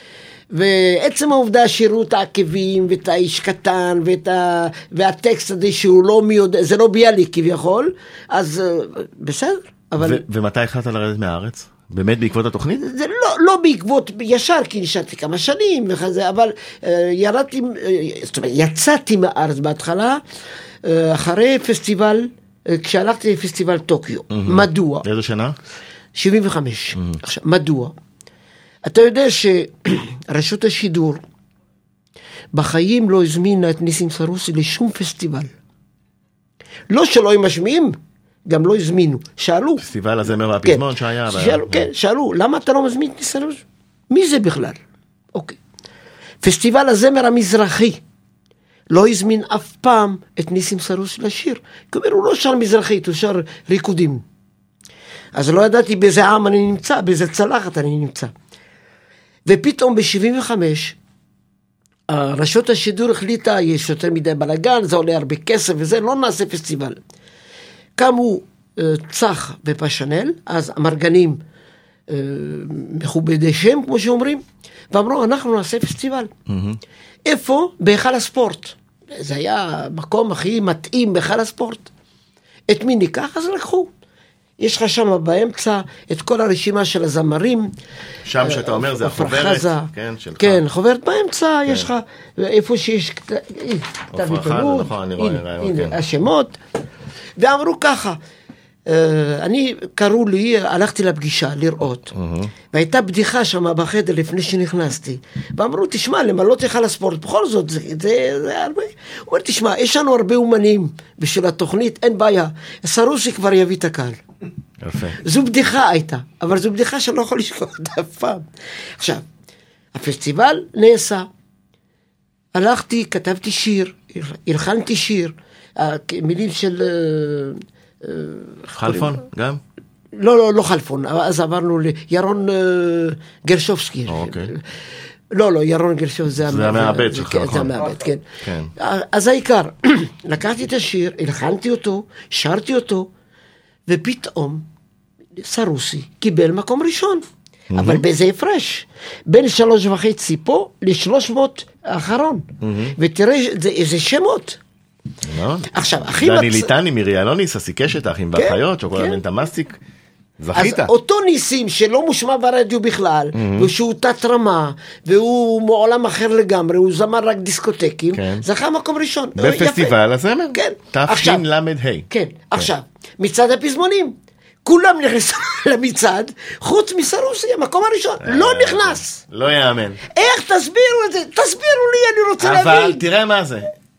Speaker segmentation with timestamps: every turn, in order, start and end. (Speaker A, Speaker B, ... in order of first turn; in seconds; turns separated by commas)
Speaker A: 0.5-10.2, Speaker B: 10.0-12.8, Speaker A: 12.8-20.2, Speaker A: 20.8-25.1, Speaker B: 24.3-25.6, Speaker A: 26.1-27.9, Speaker A: 28.9-31.2, Speaker A: 32.5-35.5, Speaker A: 36.9-38.0, Speaker A: 38.5-39.8, Speaker B: 39.8-41.9, Speaker A: 40.6-44.8, Speaker A: 45.3-45.6, Speaker A: 46.4-48.0, Speaker A: 48.9-54.2, Speaker A: 55.3-58.3, Speaker A: 59.5-61.0, Speaker A: 62.1-67.0, Speaker A: 68.0-71.4, Speaker A: 72.1-76.3, Speaker B: 76.5-76.8, Speaker A: 77.2-81.9, Speaker A: 82.7-83.9, Speaker A: 84.6-87.7, Speaker B: 88.2-90.6, Speaker A: 88.4-96.6, Speaker B: 94.1-96.0, Speaker A: 97.4-98.2, Speaker A: 98.9-102.1, Speaker B: 102.1-102.5, Speaker A: 102.7-114.2, Speaker B: 114.8-115.2, Speaker A: 115.2-118.4, Speaker A: 119.0-119.2, Speaker A: 119.9-121.3, Speaker A: 122.5-129.2, Speaker B: 128.7-129.6, Speaker A: 130.1-134.7, Speaker B: 134.1-134.5, Speaker A: 135.3-138.2, Speaker B: 136.4-137.8, Speaker B: 138.4-138.7, Speaker A: 138.8-143.1, Speaker A: 143.9-144.7, Speaker A: 145.4-154.6, Speaker B: 147.7-148.0, Speaker B: 152.6-152.9, Speaker B: 155.2-159.8, Speaker A: 155.7-156.7, Speaker A: 158.3-159.2, Speaker B: 160.4-160.9, Speaker A: 160.5-169.9, Speaker B: 163.3-163.7, Speaker B: 168.1-168.4, Speaker B: 169.3-172.7, Speaker A: 170.5-171.4, Speaker A: 172.1-179.2, Speaker B: 178.2-180.0, Speaker A: 180.1-183.0, Speaker B: 182.4-183.7